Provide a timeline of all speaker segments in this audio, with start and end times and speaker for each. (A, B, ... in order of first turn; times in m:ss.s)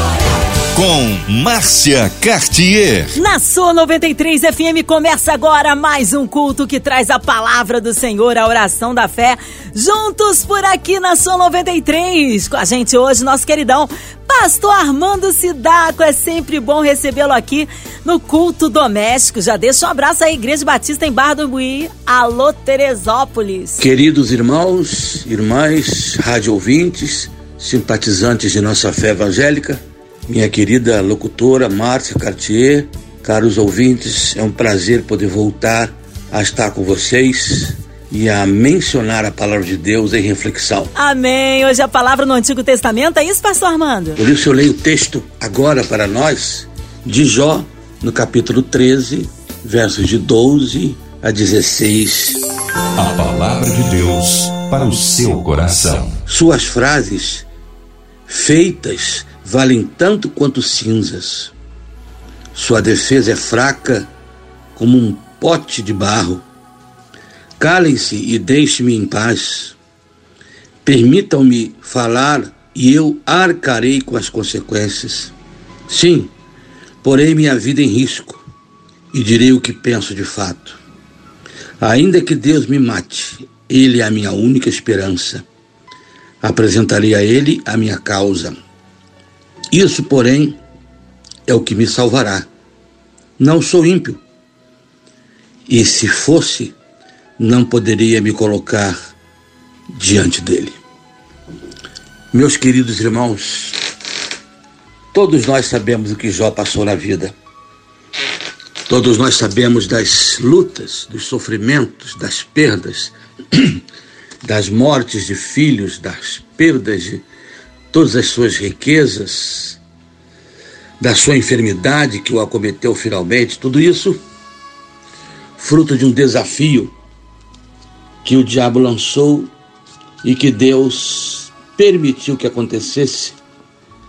0:00.7-0:03.2 A
0:03.1-0:23.8 B
0:23.8-0:40.9 C
0:41.0-0:44.2 B
0:44.2-0:52.4 C
0:53.0-0:56.2 A
0:56.3-0:57.5 C
0:58.3-1:01.5 C
1:02.5-1:04.1 C
1:04.8-1:06.4 C
1:07.6-1:09.8 C
1:10.8-1:15.3 C
1:15.9-1:16.3 C
1:17.0-1:18.4 C
1:19.1-1:20.8 C
1:21.8-1:25.4 C
1:26.4-1:28.6 C
1:29.7-1:30.6 C
1:31.5-1:32.5 C
1:33.4-1:34.2 C
1:35.7-1:36.8 C
1:37.4-1:39.1 C
1:39.9-1:40.8 C
1:42.3-1:43.8 C
1:45.1-1:47.3 C
1:48.9-1:53.8 C
1:54.4-1:57.2 C
1:57.9-1:59.8 C
2:01.0-2:04.2 C
2:05.6-2:06.9 C
2:08.2-2:09.5 C
2:10.2-2:13.4 C